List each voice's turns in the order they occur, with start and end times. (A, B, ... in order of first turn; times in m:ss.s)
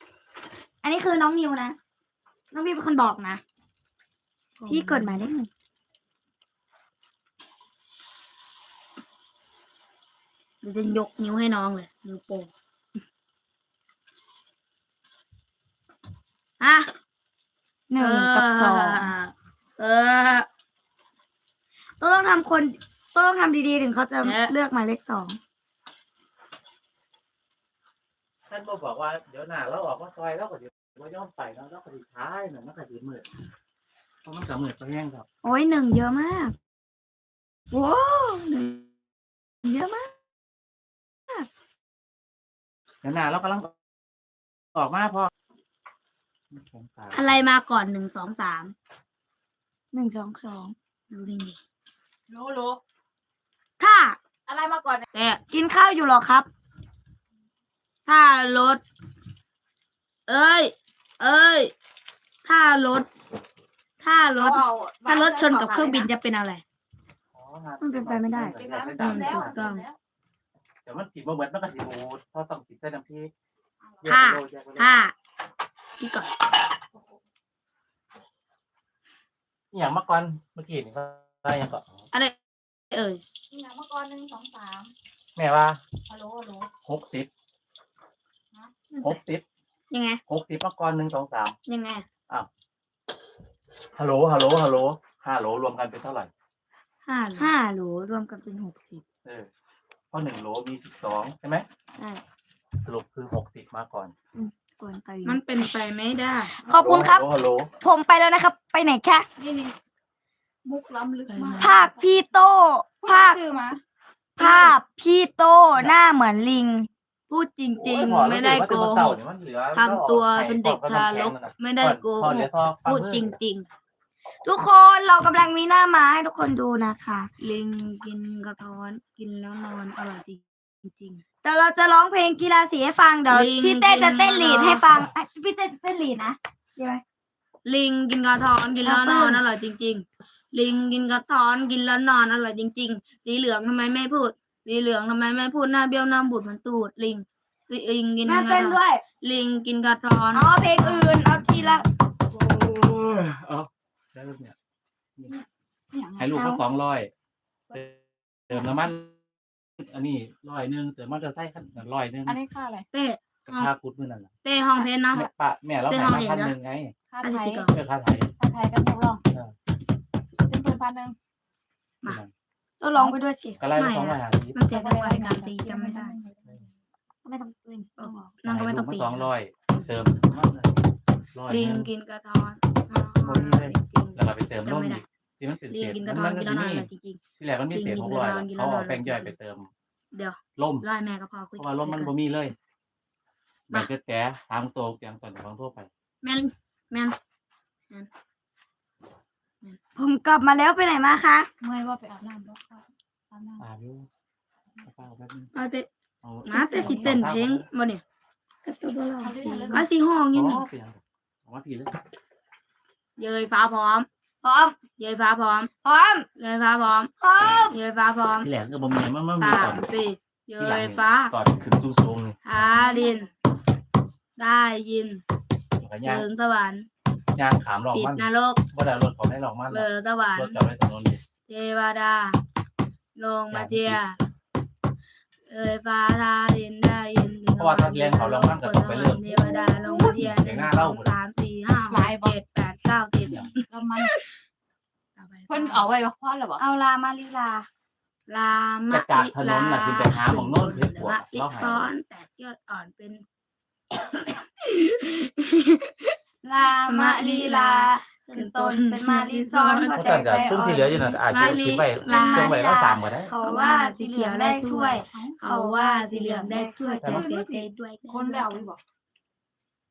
0:00.8-0:01.8 A
0:02.5-0:03.4 A
0:04.6-0:05.2 B
0:04.7-0:05.5 A
0:10.6-0:12.5 B
0:16.6-0:16.9 B
0:17.9-0:19.1 A
0:18.0-0:20.5 B
0:22.0-0:25.4 A
0:24.2-0:24.5 B
0:28.5-0:33.3 C
0:34.2-0:35.2 C
0:35.4-0:36.5 A
0:37.7-0:38.8 A
0:39.6-0:40.1 A
0:43.0-0:43.7 C
0:44.7-0:45.3 C
0:46.5-0:47.4 C
0:47.1-0:48.7 B
0:49.9-0:50.7 A
0:51.1-0:51.6 B
0:52.3-0:52.8 D
0:53.8-0:54.2 B
0:54.5-0:55.1 D
0:55.1-0:55.4 B
0:55.5-0:56.5 A
0:58.1-0:58.8 B
1:00.3-1:01.7 B
1:02.4-1:03.1 B
1:04.0-1:06.6 B
1:04.4-1:06.1 D
1:07.3-1:09.6 C
1:07.8-1:08.6 A
1:08.5-1:10.0 D
1:09.0-1:09.8 B
1:10.8-1:13.3 C
1:14.0-1:15.0 C
1:14.0-1:15.1 B
1:16.0-1:16.3 B
1:19.7-1:22.0 C
1:22.9-1:23.2 B
1:23.5-1:24.9 D
1:25.4-1:25.8 C
1:26.1-1:26.7 D
1:26.8-1:27.3 C
1:28.5-1:29.1 D
1:29.0-1:29.4 C
1:29.9-1:30.2 B
1:30.3-1:31.6 C
1:31.7-1:32.0 B
1:33.9-1:36.3 C
1:37.0-1:37.5 B
1:37.4-1:39.0 A
1:39.2-1:39.5 C
1:40.1-1:41.6 C
1:42.8-1:44.1 C
1:44.4-1:45.4 A
1:45.2-1:46.6 B
1:46.6-1:47.2 A
1:46.6-1:47.7 C
1:47.8-1:49.2 A
1:49.4-1:49.7 D
1:50.6-1:52.0 D
1:51.3-1:51.8 B
1:51.6-1:53.4 A
1:53.0-1:53.8 D
1:54.4-1:56.9 A
1:54.4-1:54.7 D
1:57.3-1:59.2 B
1:57.8-2:03.3 C
1:59.7-2:03.7 B
2:04.4-2:07.3 A
2:07.4-2:11.2 B
2:11.4-2:17.0 A
2:13.3-2:15.0 B
2:17.6-2:30.5 B
2:18.8-2:19.4 A
2:28.2-2:29.0 A
2:30.3-2:31.8 A
2:32.3-2:34.5 C
2:35.3-2:36.3 D
2:36.2-2:37.1 C
2:36.3-2:36.6 A
2:37.7-2:39.2 C
2:39.8-2:42.4 C
2:42.2-2:42.8 D
2:42.9-2:43.7 B
2:43.5-2:44.3 C
2:44.4-2:45.3 B
2:45.1-2:46.9 C
2:45.9-2:46.5 B
2:47.1-2:47.7 D
2:47.2-2:47.8 B
2:47.7-2:48.3 C
2:48.4-2:49.2 D
2:50.4-2:51.2 D
2:52.0-2:52.3 C
2:52.8-2:53.6 A
2:53.6-2:54.6 C
2:53.7-2:56.2 B
2:54.7-2:56.7 D
2:57.2-2:58.3 A
2:58.0-3:00.0 B
2:58.4-3:01.9 C
3:01.5-3:05.0 B
3:03.2-3:09.7 C
3:05.7-3:09.3 B
3:10.1-3:12.1 B
3:10.6-3:10.8 C
3:11.6-3:12.6 C
3:13.7-3:15.9 C
3:16.2-3:17.2 B
3:20.0-3:21.5 A
3:21.6-3:23.6 D
3:23.6-3:24.1 C
3:24.8-3:25.5 C
3:25.5-3:25.9 B
3:26.2-3:27.6 C
3:26.4-3:28.0 B
3:26.5-3:27.1 A
3:28.6-3:29.8 A
3:29.2-3:29.9 D
3:29.7-3:30.6 B
3:30.3-3:31.9 C
3:33.2-3:34.1 B
3:34.4-3:34.8 A
3:34.8-3:35.7 B
3:35.8-3:36.3 A
3:36.4-3:37.1 B
3:37.2-3:37.7 A
3:37.7-3:38.5 B
3:38.4-3:39.8 C
3:39.4-3:41.3 B
3:40.6-3:42.4 C
3:42.4-3:43.3 B
3:42.8-3:43.2 D
3:44.4-3:45.2 B
3:45.8-3:46.2 C
3:46.0-3:46.9 B
3:47.3-3:51.2 C
3:47.9-3:48.6 B
3:49.7-3:50.6 B
3:51.5-3:52.4 B
3:53.2-3:54.2 B
3:53.5-3:54.0 C
3:55.5-4:03.6 B
3:57.6-4:01.1 C
3:59.6-4:00.0 D
4:01.9-4:02.3 D
4:03.2-4:03.5 C
4:03.7-4:04.1 D
4:05.2-4:05.9 B
4:05.5-4:06.6 D
4:06.6-4:07.7 A
4:08.3-4:13.2 B
4:08.9-4:11.9 C
4:16.4-4:21.2 A
4:16.8-4:22.6 B
4:19.9-4:23.3 C
4:22.0-4:27.6 A
4:23.4-4:28.7 B
4:24.8-4:25.4 D
4:27.0-4:27.3 C
4:27.2-4:28.8 D